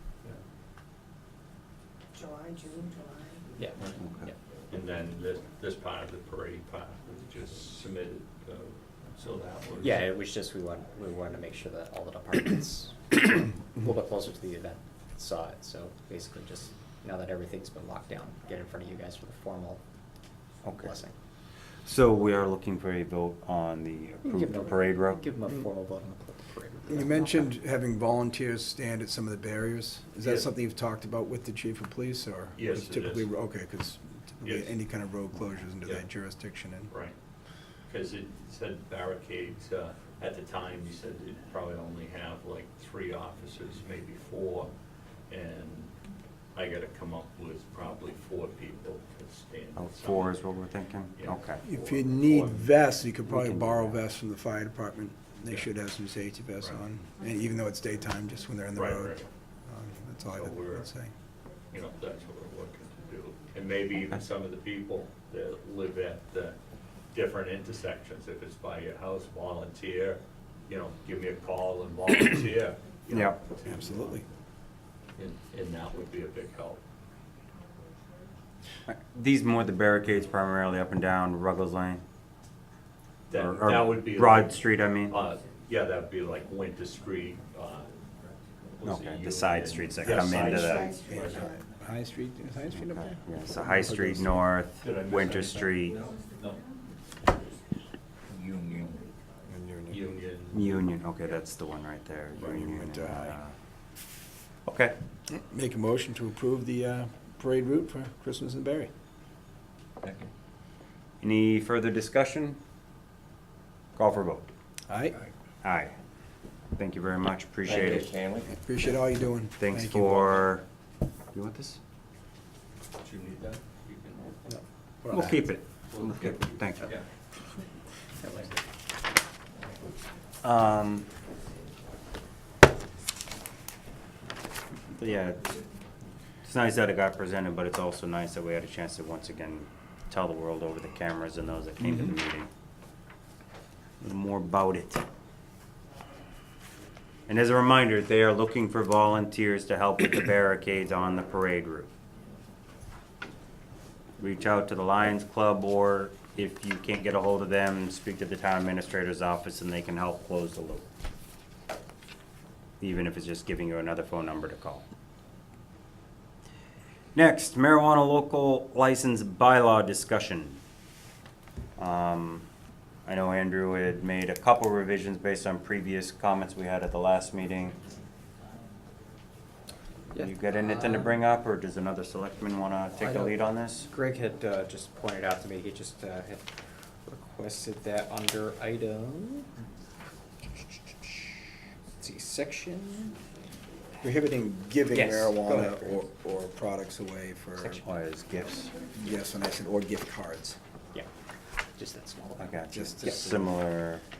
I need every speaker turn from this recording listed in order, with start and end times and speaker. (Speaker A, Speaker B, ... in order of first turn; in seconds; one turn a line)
Speaker A: 2.1-3.4
Speaker B: 3.5-4.3
Speaker C: 3.8-4.3
Speaker D: 4.7-10.0
Speaker B: 9.8-19.8
Speaker C: 20.6-20.9
Speaker B: 20.7-21.1
Speaker C: 21.8-25.2
Speaker B: 24.2-27.5
Speaker E: 26.9-36.9
Speaker D: 30.2-30.5
Speaker D: 32.5-33.3
Speaker D: 34.4-34.8
Speaker D: 36.9-37.1
Speaker D: 37.9-44.7
Speaker D: 45.3-45.9
Speaker D: 46.5-50.4
Speaker C: 49.7-51.6
Speaker D: 51.1-52.6
Speaker E: 51.6-61.1
Speaker C: 53.2-54.0
Speaker D: 56.6-56.9
Speaker D: 58.7-59.3
Speaker D: 60.3-60.9
Speaker D: 61.7-66.5
Speaker D: 67.1-74.1
Speaker C: 73.1-73.4
Speaker E: 73.6-74.2
Speaker D: 75.2-76.8
Speaker C: 78.9-82.0
Speaker D: 83.3-88.0
Speaker C: 83.3-85.2
Speaker D: 88.8-91.5
Speaker C: 88.8-90.9
Speaker A: 90.5-91.5
Speaker E: 91.0-94.5
Speaker C: 92.7-96.1
Speaker D: 94.8-96.6
Speaker D: 98.3-99.0
Speaker E: 99.5-100.0
Speaker D: 99.9-100.9
Speaker C: 100.5-103.5
Speaker E: 102.3-103.4
Speaker C: 104.7-105.0
Speaker E: 105.3-108.9
Speaker D: 110.0-110.3
Speaker C: 111.2-112.6
Speaker C: 114.0-114.5
Speaker E: 114.9-115.2
Speaker C: 115.6-115.9
Speaker C: 116.8-118.1
Speaker D: 117.7-118.4
Speaker E: 118.4-120.5
Speaker C: 119.6-120.6
Speaker C: 121.3-121.8
Speaker D: 123.0-124.3
Speaker E: 124.5-125.4
Speaker C: 125.1-126.9
Speaker D: 125.9-127.0
Speaker B: 128.2-128.6
Speaker C: 130.4-131.1
Speaker C: 134.9-135.6
Speaker C: 136.4-142.5
Speaker C: 144.0-145.0
Speaker C: 147.3-151.9
Speaker C: 154.2-160.9
Speaker C: 162.8-164.8
Speaker C: 167.1-170.6
Speaker C: 171.8-172.5
Speaker C: 173.0-177.8
Speaker B: 180.1-181.1
Speaker C: 180.2-183.9
Speaker B: 183.0-189.5
Speaker B: 192.0-193.2
Speaker E: 194.0-197.8
Speaker B: 194.9-196.0
Speaker B: 197.5-197.9
Speaker C: 197.8-198.8
Speaker E: 198.9-200.6
Speaker B: 201.7-203.5
Speaker C: 202.4-204.0
Speaker E: 202.7-203.3